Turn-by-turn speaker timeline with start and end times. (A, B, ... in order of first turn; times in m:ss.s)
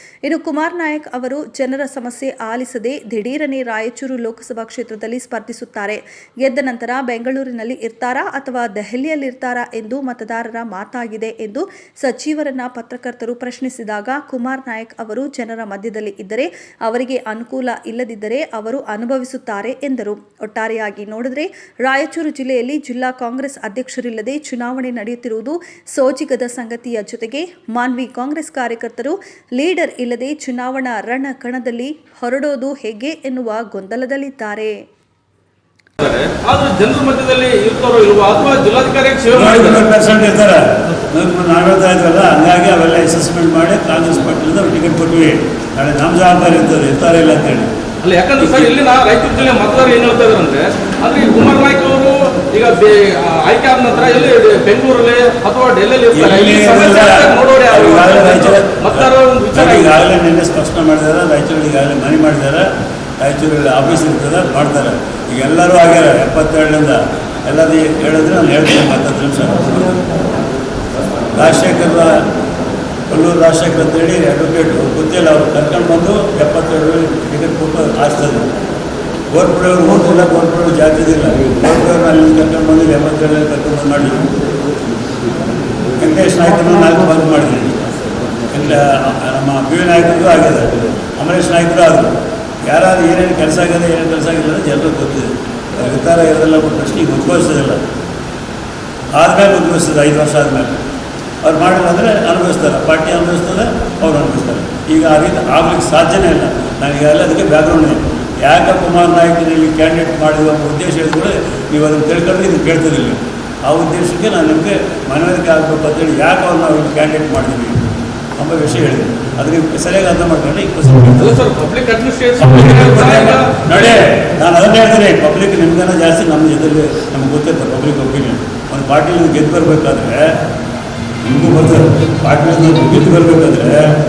0:00.2-0:34.8 A
0:36.0-0:39.9 B
0:39.3-0:47.7 C
0:48.0-1:00.0 B
0:48.4-0:48.7 C
0:56.1-1:02.7 C
1:03.2-1:10.0 C
1:11.4-1:12.2 C
1:13.1-1:18.5 C
1:19.3-1:24.3 C
1:26.0-1:27.8 C
1:28.5-1:37.8 C
1:39.2-1:40.8 C
1:41.4-1:57.9 C
1:58.4-2:01.4 C
2:01.1-2:03.6 B
2:02.5-2:10.3 C
2:11.2-2:13.9 C